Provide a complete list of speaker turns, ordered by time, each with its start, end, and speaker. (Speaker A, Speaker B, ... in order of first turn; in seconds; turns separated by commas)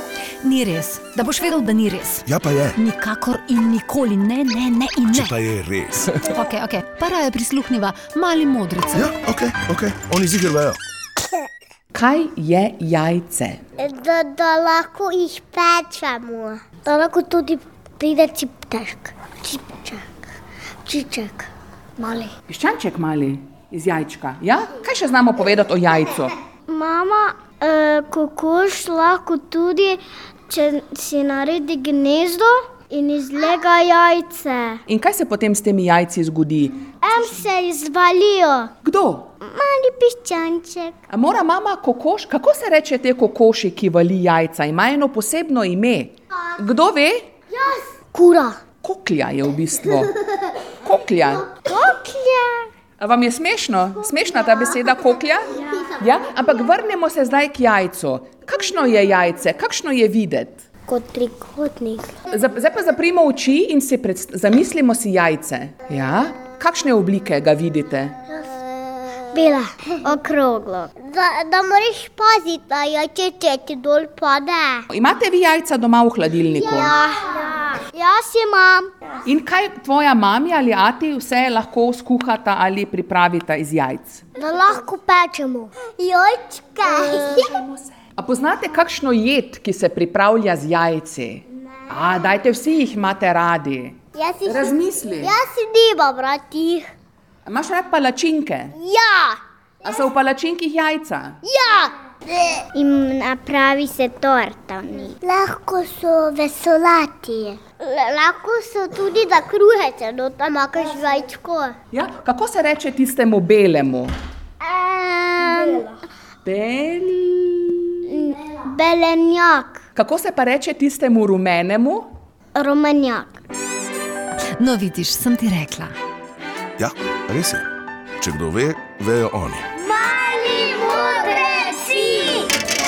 Speaker A: 0.4-5.3, Speaker B: 2.3-2.8, Speaker B: 5.1-6.3, Speaker A: 6.3-9.1, Speaker B: 8.9-10.8, Speaker C: 11.9-13.6, Speaker D: 13.8-20.1, Speaker D: 20.9-22.3, Speaker C: 22.5-26.4, Speaker D: 26.7-34.8, Speaker C: 34.9-37.0, Speaker D: 37.0-38.7, Speaker C: 38.8-39.3, Speaker D: 39.4-41.0, Speaker C: 41.1-47.3, Speaker D: 47.5-48.6, Speaker C: 48.8-50.2, Speaker C: 50.8-51.5, Speaker D: 51.6-52.7, Speaker C: 53.0-60.6, Speaker D: 60.9-62.1, Speaker C: 62.3-68.2, Speaker D: 68.3-74.9, Speaker C: 74.9-77.0, Speaker D: 76.6-78.9, Speaker C: 79.2-84.2, Speaker D: 84.4-87.6, Speaker C: 87.2-95.3, Speaker D: 94.2-96.9, Speaker C: 97.5-98.8, Speaker D: 98.8-99.4, Speaker C: 99.8-101.4, Speaker D: 101.5-111.8, Speaker C: 111.9-114.1, Speaker D: 114.6-115.9, Speaker C: 116.5-118.3, Speaker D: 118.1-119.8, Speaker C: 120.0-122.1, Speaker D: 122.5-123.4, Speaker A: 124.6-126.0, Speaker B: 126.8-127.7, Speaker B: 128.2-129.6, Speaker D: 129.8-132.5